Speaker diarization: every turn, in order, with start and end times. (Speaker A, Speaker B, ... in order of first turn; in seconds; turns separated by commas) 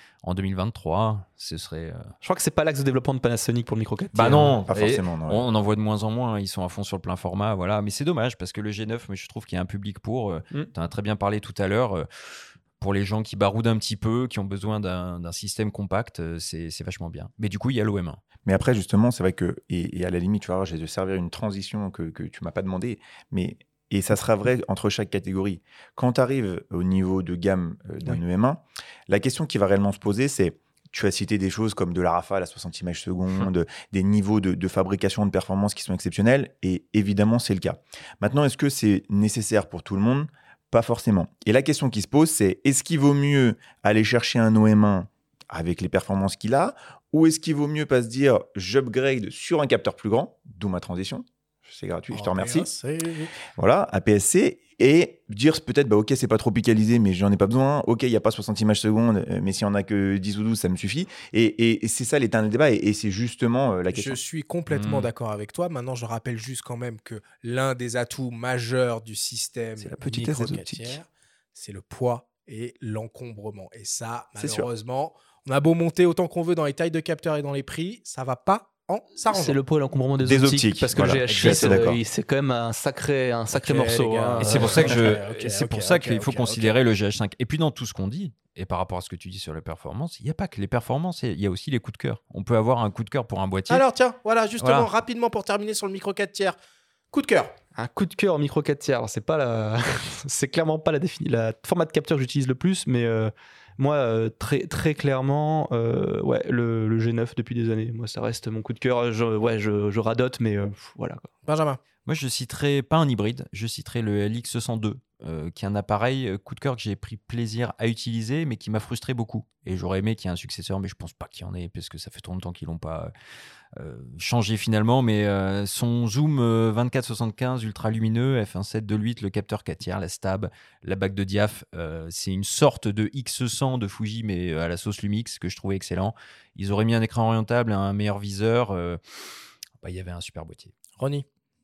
Speaker A: 0.2-2.1, Speaker B: 2.2-4.6, Speaker A: 4.1-18.2, Speaker C: 4.7-5.4, Speaker C: 18.4-52.7, Speaker D: 52.1-53.3, Speaker C: 53.6-64.2, Speaker D: 63.9-79.6, Speaker A: 64.7-65.1, Speaker A: 69.8-70.8, Speaker C: 70.0-70.7, Speaker B: 79.2-85.0, Speaker C: 80.2-82.0, Speaker A: 81.3-81.9, Speaker D: 83.5-86.7, Speaker A: 84.4-93.8, Speaker D: 93.7-96.5, Speaker A: 94.6-94.9, Speaker D: 97.1-97.5, Speaker B: 97.8-111.3, Speaker D: 111.5-111.8, Speaker A: 112.0-123.1, Speaker A: 123.8-139.0, Speaker A: 139.8-140.7, Speaker D: 141.0-141.2